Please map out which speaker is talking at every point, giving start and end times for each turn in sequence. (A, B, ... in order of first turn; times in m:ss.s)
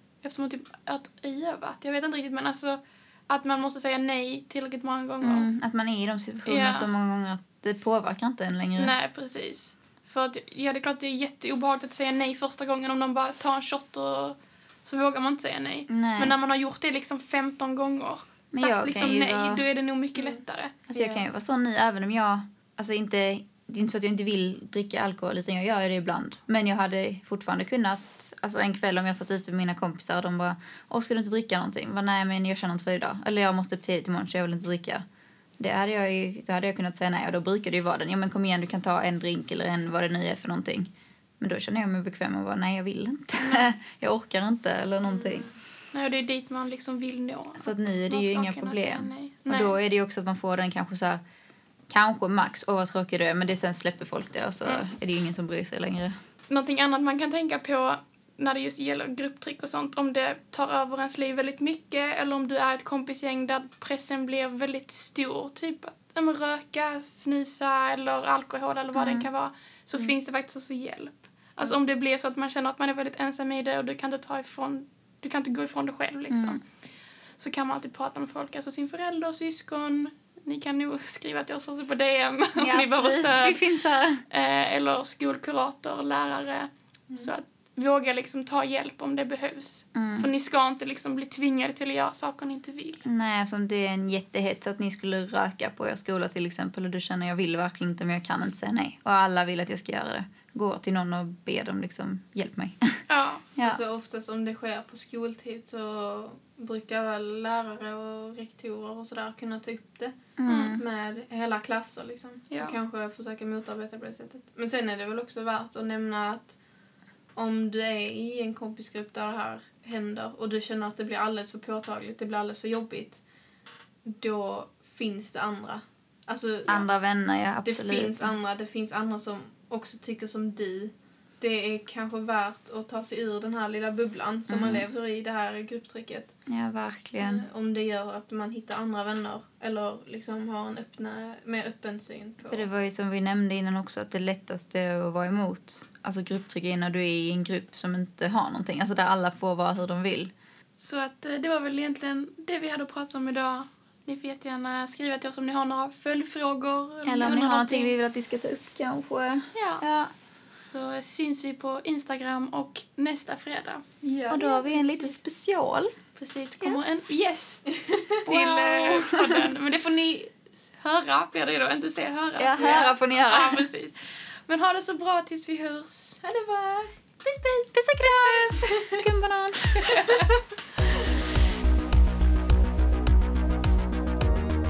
0:00.2-0:05.5 A
0:05.2-0:08.9 B
0:06.4-0:06.9 A
0:08.8-0:20.7 A
0:15.9-0:16.3 B
0:18.5-0:19.6 B
0:20.9-0:35.0 B
0:20.9-0:21.2 C
0:35.6-0:45.5 B
0:43.4-0:43.7 A
0:45.0-0:45.5 C
0:45.9-0:49.7 A
0:47.5-0:51.2 B
0:51.9-0:56.1 B
0:56.5-1:16.6 A
1:08.9-1:09.3 B
1:16.3-1:16.6 B
1:17.4-1:23.6 A
1:22.6-1:24.2 B
1:24.3-1:33.0 A
1:29.9-1:30.3 B
1:33.0-1:43.0 B
1:43.1-1:43.4 A
1:43.6-1:56.6 C
1:50.4-1:50.8 B
1:50.5-1:50.8 A
1:57.4-2:03.2 C
2:04.0-2:06.8 C
2:06.7-2:08.3 B
2:07.6-2:16.4 C
2:14.5-2:14.8 B
2:16.5-2:17.4 B
2:17.2-2:22.7 C
2:22.5-2:30.3 B
2:30.8-2:37.9 A
2:37.0-2:40.1 B
2:39.5-2:39.8 A
2:40.5-2:43.8 A
2:44.0-2:45.1 C
2:44.3-2:46.0 B
2:46.2-2:53.9 A
2:47.7-2:48.2 C
2:48.2-2:49.5 B
2:52.4-2:53.7 B
2:52.6-2:52.9 C
2:54.5-2:56.2 A
2:56.2-2:56.9 C
2:57.7-3:00.3 B
2:58.4-2:59.0 C
2:59.8-3:00.3 A